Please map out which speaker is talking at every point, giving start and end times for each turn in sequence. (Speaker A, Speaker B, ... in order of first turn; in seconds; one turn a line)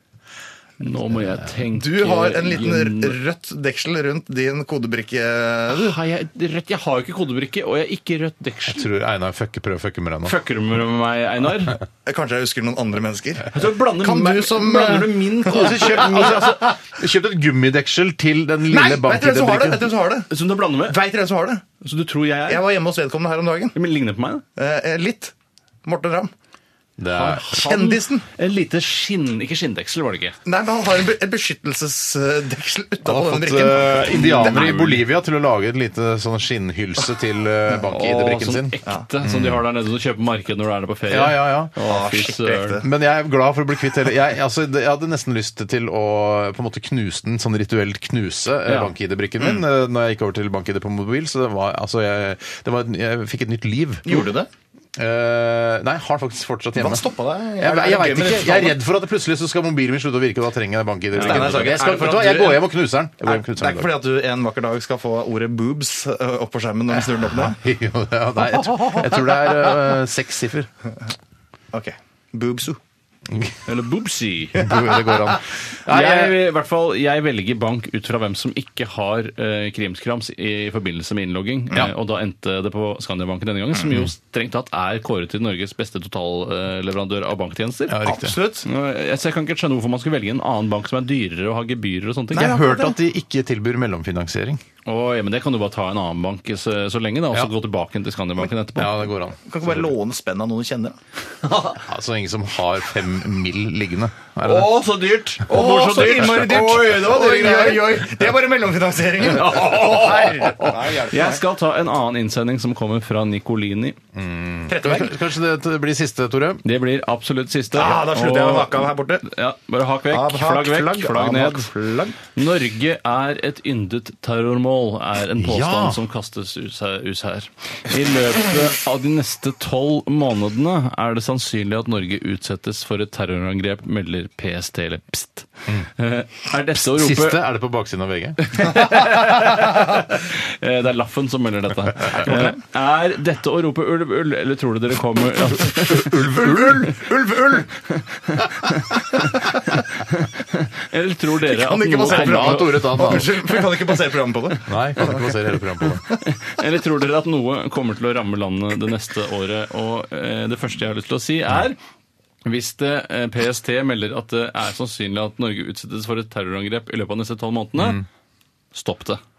Speaker A: 0.8-3.2
Speaker B: 1.7-6.0
Speaker A: 5.7-8.9
Speaker C: 8.7-10.3
Speaker A: 10.2-11.8
Speaker B: 12.0-16.6
Speaker A: 13.5-16.3
Speaker C: 15.5-19.9
Speaker B: 18.7-20.3
Speaker A: 20.3-21.0
Speaker B: 20.8-21.6
Speaker A: 21.8-22.6
Speaker B: 22.5-23.8
Speaker A: 23.7-24.4
Speaker B: 24.6-25.3
Speaker B: 25.8-26.3
Speaker C: 27.0-27.5
Speaker A: 27.1-30.4
Speaker B: 27.7-28.2
Speaker B: 30.4-34.8
Speaker C: 33.0-39.6
Speaker A: 34.1-35.0
Speaker A: 37.8-42.8
Speaker C: 41.1-41.7
Speaker B: 41.8-42.9
Speaker C: 42.8-54.2
Speaker A: 48.6-48.9
Speaker B: 49.4-49.6
Speaker B: 54.0-54.5
Speaker C: 55.0-57.0
Speaker B: 56.8-58.8
Speaker C: 57.6-63.9
Speaker A: 61.1-61.7
Speaker B: 61.1-62.7
Speaker B: 63.2-67.6
Speaker C: 67.3-70.7
Speaker B: 71.7-72.8
Speaker A: 73.7-74.7
Speaker C: 74.5-76.4
Speaker A: 75.8-88.0
Speaker C: 87.9-88.3
Speaker B: 88.0-88.7
Speaker A: 88.6-92.5
Speaker B: 92.3-93.0
Speaker C: 92.3-94.6
Speaker A: 94.8-99.0
Speaker C: 98.8-99.9
Speaker B: 99.5-101.0
Speaker A: 101.4-101.8
Speaker C: 101.7-104.8
Speaker A: 104.4-108.0
Speaker B: 105.5-111.4
Speaker C: 106.2-106.9
Speaker A: 109.3-114.0
Speaker C: 114.1-116.6
Speaker B: 114.7-115.2
Speaker A: 116.6-121.7
Speaker B: 117.7-119.2
Speaker B: 120.1-122.2
Speaker A: 122.3-137.4
Speaker C: 125.4-126.0
Speaker C: 136.7-138.6
Speaker A: 138.4-146.6
Speaker B: 142.2-142.5
Speaker C: 145.9-146.8
Speaker B: 146.2-147.7
Speaker A: 147.8-153.2
Speaker B: 151.4-154.7
Speaker C: 152.0-153.3
Speaker C: 154.7-156.0
Speaker A: 156.2-161.8
Speaker A: 162.4-168.0
Speaker C: 167.8-168.0
Speaker A: 168.7-169.2